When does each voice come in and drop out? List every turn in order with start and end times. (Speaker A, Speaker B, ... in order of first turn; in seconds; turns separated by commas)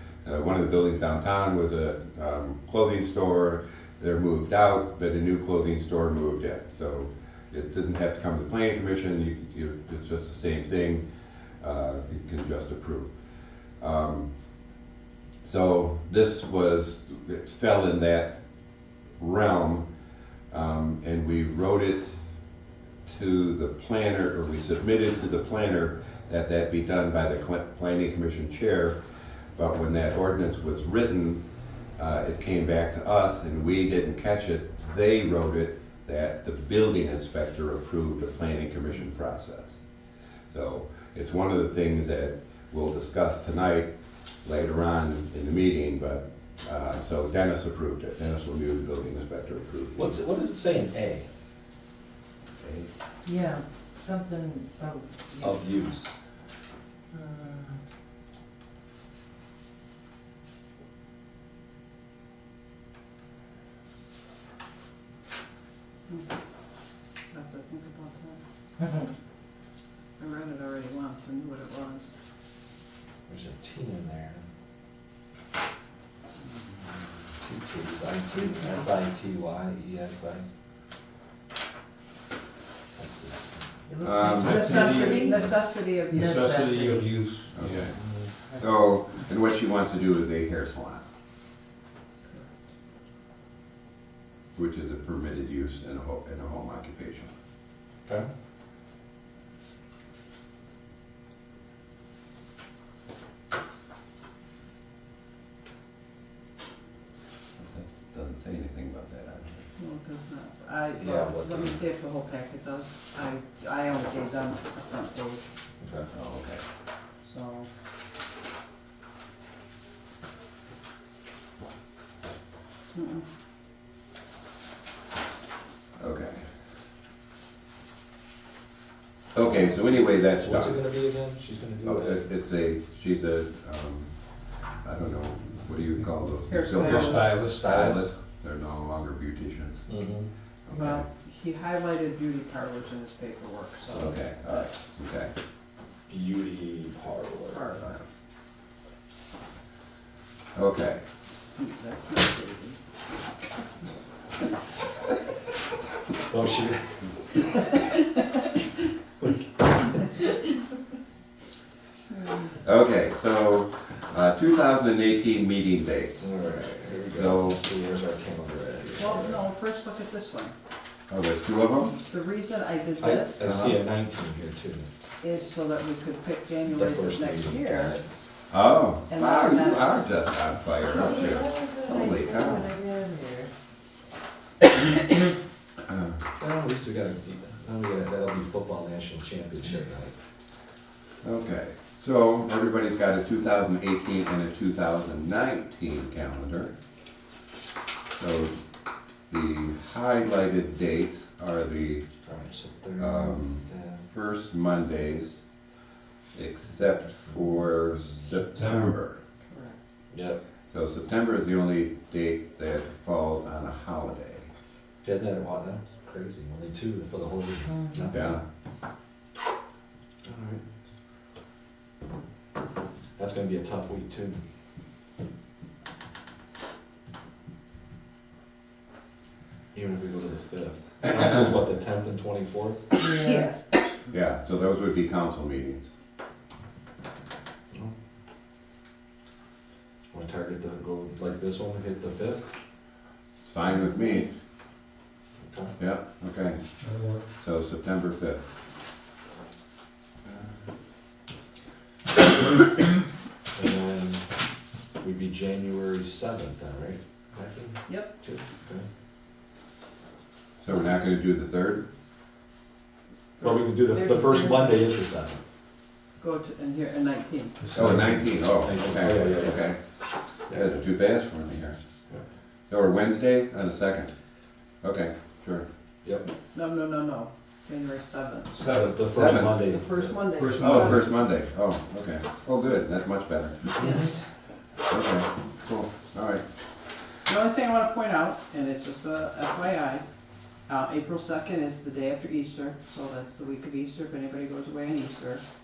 Speaker A: 0.2-11.0, Speaker A: 11.6-13.1, Speaker A: 13.8-14.3, Speaker A: 15.4-18.4, Speaker A: 19.2-19.9, Speaker A: 20.5-22.2, Speaker A: 23.0-29.0, Speaker A: 29.6-31.4, Speaker A: 31.9-39.8, Speaker A: 40.5-50.2, Speaker B: 50.0-51.3, Speaker A: 52.6-52.9, Speaker C: 53.2-55.5, Speaker B: 55.4-56.2, Speaker D: 66.1-66.3, Speaker D: 67.3-68.4, Speaker D: 70.2-72.1, Speaker B: 73.3-74.4, Speaker B: 77.4-80.4, Speaker B: 83.0-83.6, Speaker D: 83.9-87.1, Speaker A: 84.0-85.0, Speaker E: 84.4-87.5, Speaker C: 84.8-85.4, Speaker C: 86.1-86.5, Speaker A: 87.5-88.0, Speaker A: 88.5-91.0, Speaker A: 94.5-97.3, Speaker A: 107.6-109.7, Speaker D: 109.8-115.5, Speaker B: 111.0-111.8, Speaker B: 115.8-116.1, Speaker D: 116.1-116.3, Speaker A: 116.2-116.6, Speaker D: 117.2-117.7, Speaker D: 122.9-123.2, Speaker A: 126.0-126.5, Speaker A: 129.3-130.8, Speaker B: 130.1-132.2, Speaker A: 131.8-134.1, Speaker A: 134.8-139.9, Speaker D: 136.5-137.4, Speaker E: 136.7-138.1, Speaker B: 139.9-140.3, Speaker A: 140.7-141.0, Speaker D: 140.7-144.9, Speaker A: 143.9-145.3, Speaker B: 146.1-147.7, Speaker D: 147.5-148.0, Speaker A: 150.5-151.0, Speaker D: 151.6-152.8, Speaker B: 156.3-157.2, Speaker A: 162.6-166.3, Speaker B: 166.2-169.5, Speaker A: 167.1-167.6, Speaker D: 169.0-170.5, Speaker A: 171.1-172.0, Speaker D: 172.0-173.5, Speaker B: 173.0-174.9, Speaker A: 173.4-173.8, Speaker D: 175.2-178.0, Speaker B: 176.7-178.0, Speaker A: 178.5-182.8, Speaker D: 179.1-180.0, Speaker C: 180.9-183.5, Speaker B: 186.4-190.1, Speaker A: 191.2-196.7, Speaker A: 198.2-198.6, Speaker A: 199.3-202.1, Speaker B: 202.2-204.0, Speaker A: 203.0-205.4, Speaker A: 206.3-209.2, Speaker E: 208.5-208.9, Speaker D: 209.5-209.8, Speaker B: 210.1-210.4, Speaker A: 210.7-214.5, Speaker B: 215.0-218.2, Speaker A: 218.1-218.4, Speaker B: 220.2-220.6, Speaker B: 223.2-224.4, Speaker B: 229.7-232.9, Speaker C: 233.0-233.6, Speaker D: 233.2-233.5, Speaker A: 234.1-235.9, Speaker B: 240.1-242.5, Speaker A: 243.4-244.3, Speaker B: 245.4-245.7, Speaker A: 245.8-246.6, Speaker E: 246.8-247.2, Speaker A: 247.3-248.4, Speaker B: 253.5-254.2, Speaker B: 255.0-258.8, Speaker A: 260.6-261.9, Speaker B: 263.4-265.4, Speaker C: 264.0-264.7, Speaker D: 266.2-267.6, Speaker E: 267.6-268.1, Speaker A: 267.7-269.8, Speaker B: 268.6-269.6, Speaker A: 270.5-271.8, Speaker A: 272.7-274.1, Speaker A: 274.8-275.6, Speaker B: 276.0-276.3, Speaker D: 276.5-278.6, Speaker E: 278.5-278.9, Speaker B: 278.6-280.1, Speaker A: 279.1-279.6, Speaker D: 279.5-281.1, Speaker E: 280.4-281.0, Speaker A: 280.6-283.6, Speaker D: 283.8-284.2, Speaker B: 283.8-284.1, Speaker A: 284.9-286.4, Speaker D: 287.3-290.0, Speaker D: 290.7-295.4